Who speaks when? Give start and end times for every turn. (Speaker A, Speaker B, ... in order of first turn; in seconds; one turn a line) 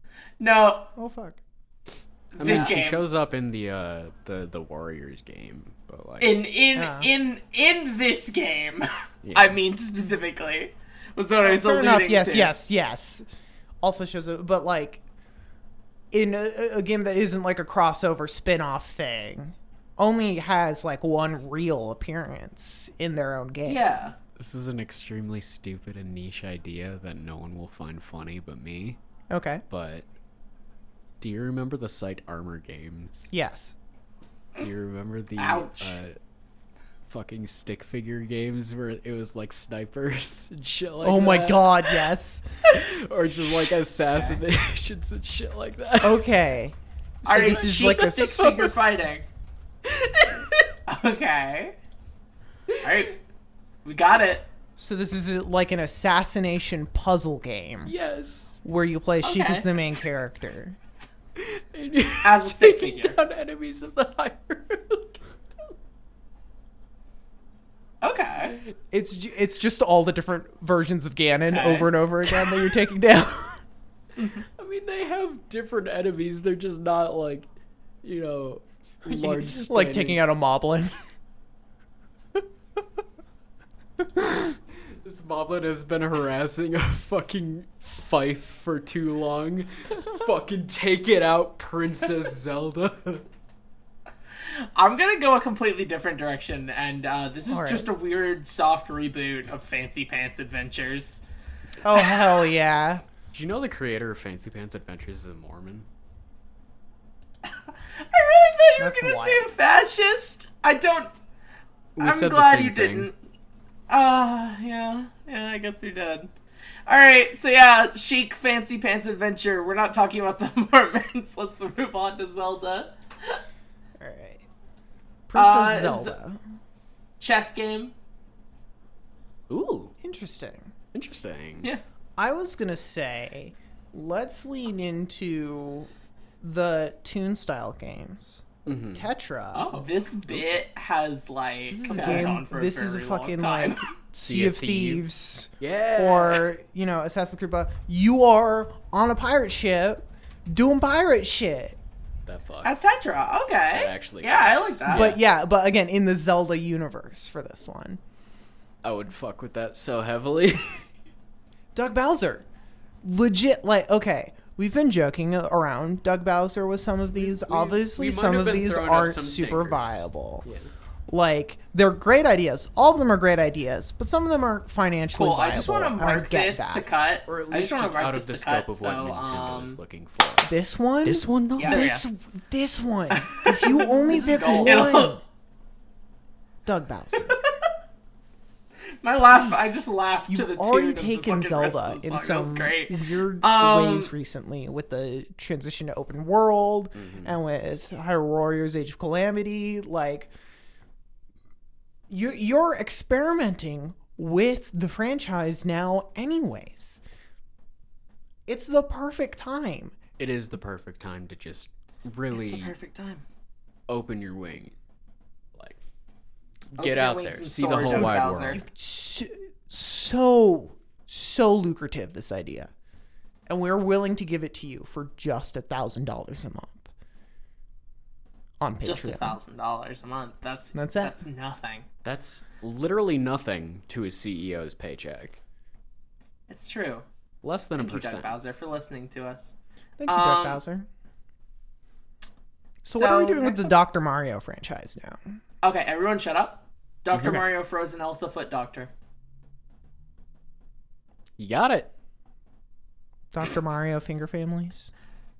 Speaker A: 0.4-0.9
Speaker B: 0.9-1.4
Speaker A: 2.3-3.0
Speaker C: 2.4-6.4
Speaker B: 2.4-2.7
Speaker A: 6.2-12.5
Speaker B: 6.8-7.1
Speaker C: 9.2-9.6
Speaker B: 11.4-13.2
Speaker B: 13.8-15.0
Speaker B: 16.1-23.8
Speaker A: 23.6-24.1
Speaker C: 24.4-29.0
Speaker B: 29.3-29.6
Speaker C: 29.7-30.1
Speaker C: 31.2-33.3
Speaker B: 33.3-33.7
Speaker C: 34.6-36.1
Speaker A: 35.4-36.0
Speaker C: 37.1-41.8
Speaker B: 41.0-43.7
Speaker C: 42.7-46.3
Speaker B: 46.0-49.0
Speaker A: 47.2-49.2
Speaker C: 47.9-48.8
Speaker C: 49.9-50.6
Speaker A: 50.9-51.7
Speaker A: 52.8-53.2
Speaker A: 53.8-54.5
Speaker B: 54.8-57.9
Speaker C: 57.9-58.6
Speaker B: 58.6-60.8
Speaker A: 59.2-59.7
Speaker C: 61.4-65.2
Speaker A: 62.2-63.2
Speaker A: 68.0-68.6
Speaker B: 68.9-73.6
Speaker A: 71.5-71.9
Speaker A: 74.2-74.4
Speaker C: 74.6-77.5
Speaker C: 78.0-80.2
Speaker B: 79.0-80.9
Speaker C: 84.8-93.2
Speaker A: 94.5-101.2
Speaker B: 97.5-97.9
Speaker B: 101.8-103.0
Speaker A: 101.9-102.3
Speaker C: 103.3-105.9
Speaker A: 107.5-111.1
Speaker B: 108.8-109.5
Speaker C: 112.0-113.1
Speaker A: 112.0-113.1
Speaker A: 113.9-116.3
Speaker A: 116.9-123.4
Speaker B: 124.0-124.4
Speaker B: 125.3-126.4
Speaker A: 125.3-126.1
Speaker A: 127.2-127.9
Speaker C: 129.5-129.9
Speaker B: 130.0-130.7
Speaker C: 130.9-131.7
Speaker B: 132.2-135.9
Speaker B: 136.4-139.9
Speaker C: 138.7-139.1
Speaker A: 139.5-143.8
Speaker C: 140.3-140.6
Speaker B: 141.7-151.8
Speaker C: 141.9-142.3
Speaker C: 144.2-145.0
Speaker C: 145.6-146.5
Speaker C: 152.2-152.9
Speaker A: 152.6-155.2
Speaker C: 153.7-155.2
Speaker B: 154.9-158.0
Speaker C: 158.8-160.8
Speaker B: 161.7-162.4
Speaker B: 163.0-170.4
Speaker C: 167.1-170.7
Speaker B: 171.1-176.9
Speaker A: 175.1-179.8
Speaker C: 177.3-180.5
Speaker B: 180.4-185.2
Speaker C: 181.0-181.9
Speaker A: 181.6-182.0
Speaker A: 183.1-185.2
Speaker C: 184.3-184.7
Speaker B: 186.6-187.4
Speaker A: 187.3-187.7
Speaker A: 189.0-194.1
Speaker B: 189.3-200.3
Speaker C: 196.9-197.3
Speaker B: 202.1-207.0
Speaker B: 208.5-209.9
Speaker C: 210.2-212.7
Speaker A: 212.3-213.2
Speaker C: 213.9-214.7
Speaker C: 216.7-218.6
Speaker A: 216.8-218.6
Speaker B: 217.7-222.7
Speaker B: 223.5-226.9
Speaker B: 228.6-229.4
Speaker A: 228.8-231.8
Speaker B: 230.7-231.2
Speaker C: 232.0-235.4
Speaker A: 236.5-237.0
Speaker C: 237.4-238.4
Speaker A: 237.8-239.6
Speaker B: 240.0-240.8
Speaker A: 240.1-240.6
Speaker B: 242.8-245.2
Speaker A: 242.9-243.7
Speaker A: 245.6-248.9
Speaker C: 247.1-247.4
Speaker C: 251.4-251.9
Speaker B: 253.3-254.9